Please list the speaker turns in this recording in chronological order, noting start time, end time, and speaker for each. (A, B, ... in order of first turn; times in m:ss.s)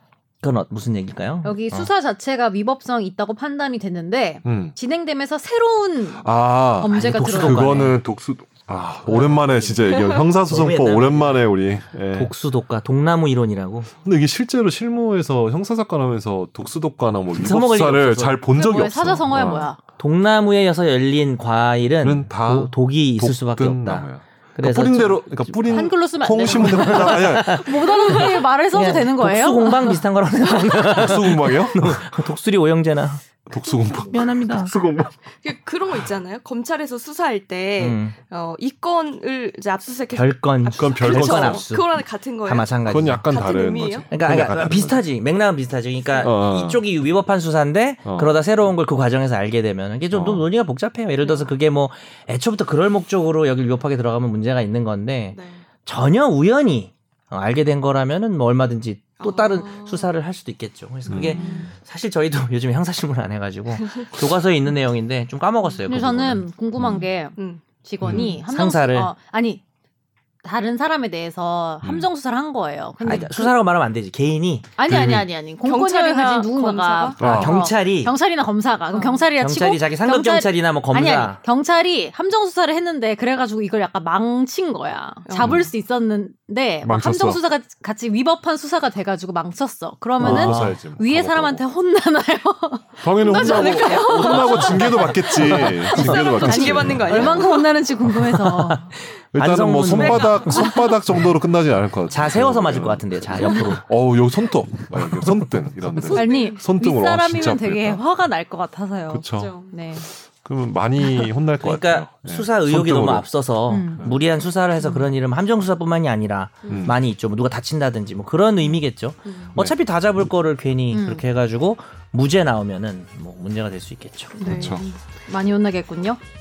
0:00.4-0:01.5 A
0:01.4-0:07.9 B
0:04.4-0:04.8 C
0:06.2-0:12.3 C
0:06.9-0:08.0 A
0:09.0-0:11.5 A
0:09.9-0:10.2 D
0:12.1-0:14.0 A
0:14.0-0:19.7 C
0:17.3-0:18.5 A
0:18.5-0:19.8 B
0:19.9-0:25.6 A
0:22.0-0:27.6 C
0:25.6-0:30.0 B
0:26.8-0:33.4 A
0:30.9-0:32.0 C
0:33.5-0:35.1 C
0:34.1-0:34.7 A
0:35.4-0:44.1 D
0:37.8-0:38.2 A
0:40.1-0:43.3 A
0:40.7-0:41.7 C
0:42.8-0:45.0 C
0:44.1-1:06.4 A
0:46.1-0:46.3 D
0:46.2-0:46.8 C
0:50.1-0:50.4 C
0:51.2-0:51.5 D
0:55.3-0:55.7 D
0:59.2-1:00.1 D
1:01.1-1:01.7 C
1:01.2-1:01.7 D
1:03.7-1:04.2 D
1:05.9-1:09.6 B
1:06.8-1:07.1 C
1:07.4-1:08.4 D
1:08.0-1:08.4 C
1:08.5-1:09.1 A
1:10.4-1:13.5 B
1:11.8-1:12.1 C
1:13.0-1:14.8 A
1:14.8-1:38.9 B
1:14.8-1:15.3 C
1:15.6-1:17.3 D
1:17.2-1:17.6 C
1:17.4-1:18.1 A
1:18.9-1:19.2 D
1:19.4-1:21.4 A
1:25.2-1:25.6 D
1:25.4-1:25.7 C
1:26.8-1:27.4 C
1:30.2-1:31.6 C
1:30.2-1:30.8 A
1:33.0-1:37.6 C
1:33.5-1:37.7 D
1:38.2-1:41.3 A
1:39.3-1:48.1 C
1:39.9-1:41.0 D
1:42.1-1:43.8 A
1:46.1-1:50.1 B
1:46.1-1:46.5 D
1:49.1-1:53.3 C
1:49.3-1:49.7 D
1:51.0-1:51.3 B
1:51.6-2:04.4 A
1:53.7-1:54.2 B
1:56.6-1:56.9 D
1:56.7-1:57.0 C
1:58.6-1:59.6 D
2:00.9-2:01.2 B
2:04.3-2:05.0 D
2:04.4-2:04.9 C
2:05.2-2:06.2 B